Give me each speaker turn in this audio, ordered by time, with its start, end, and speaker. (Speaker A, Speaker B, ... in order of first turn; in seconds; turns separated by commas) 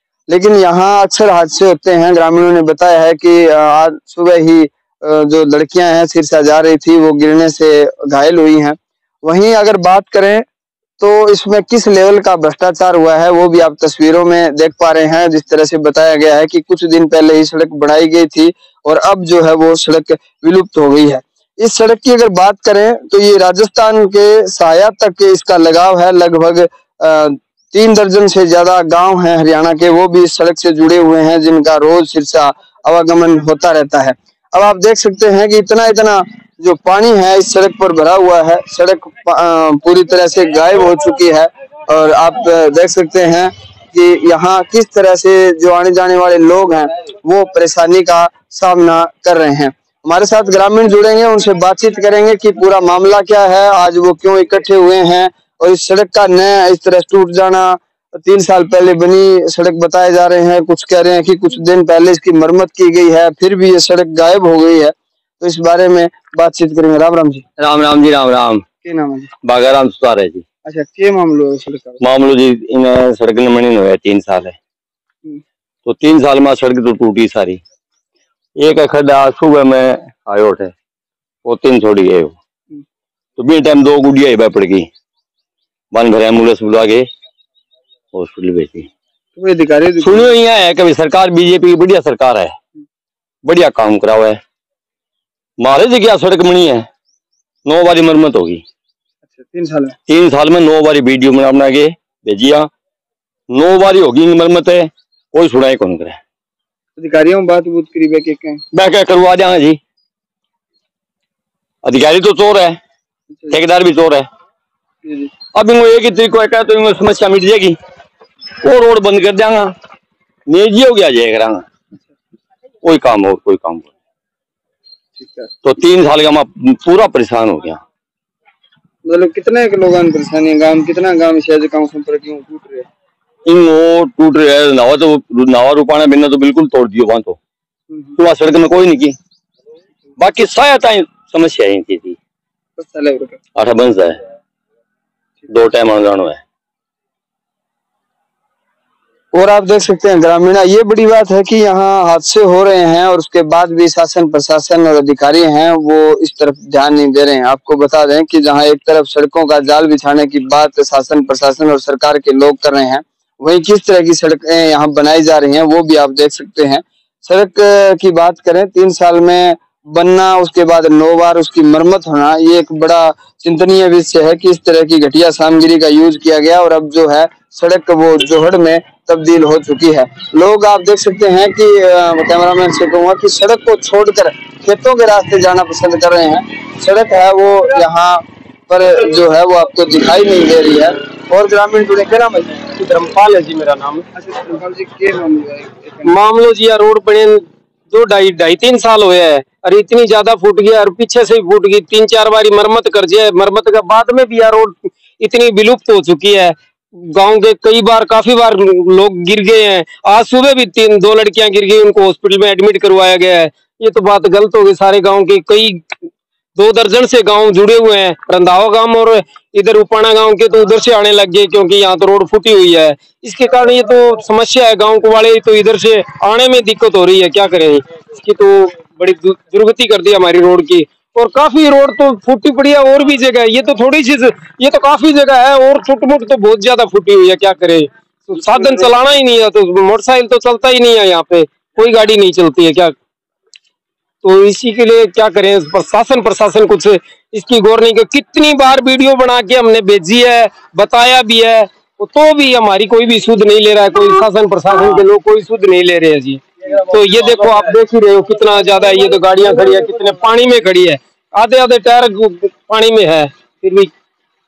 Speaker A: 0.3-10.4, Speaker A: 11.0-67.5, Speaker B: 67.6-68.6, Speaker A: 68.8-69.3, Speaker B: 69.4-70.4, Speaker A: 70.7-72.0, Speaker B: 72.0-74.6, Speaker B: 75.8-77.6, Speaker B: 78.6-80.7, Speaker B: 81.5-82.3, Speaker B: 83.4-84.9, Speaker B: 85.9-87.1, Speaker B: 88.1-88.9, Speaker A: 89.3-90.3, Speaker B: 90.0-92.5, Speaker B: 93.5-94.4, Speaker B: 95.6-96.9, Speaker B: 97.7-98.6, Speaker A: 99.3-100.0, Speaker B: 100.1-102.7, Speaker B: 103.5-106.2, Speaker A: 107.0-108.6, Speaker B: 108.7-109.8, Speaker B: 111.8-112.8, Speaker A: 113.3-113.6, Speaker B: 113.5-114.3, Speaker A: 115.0-115.3, Speaker B: 115.5-117.8, Speaker B: 118.6-119.7, Speaker B: 120.5-121.7, Speaker B: 122.8-123.9, Speaker A: 125.2-125.5, Speaker B: 125.6-127.8, Speaker A: 129.1-132.9, Speaker B: 133.4-137.4, Speaker B: 138.2-139.2, Speaker B: 140.2-142.2, Speaker A: 142.8-143.4, Speaker B: 143.6-144.2, Speaker B: 145.5-146.4, Speaker A: 149.3-192.7, Speaker C: 192.8-194.1, Speaker A: 194.1-196.1, Speaker C: 196.1-215.8, Speaker C: 216.6-242.9, Speaker C: 244.2-263.9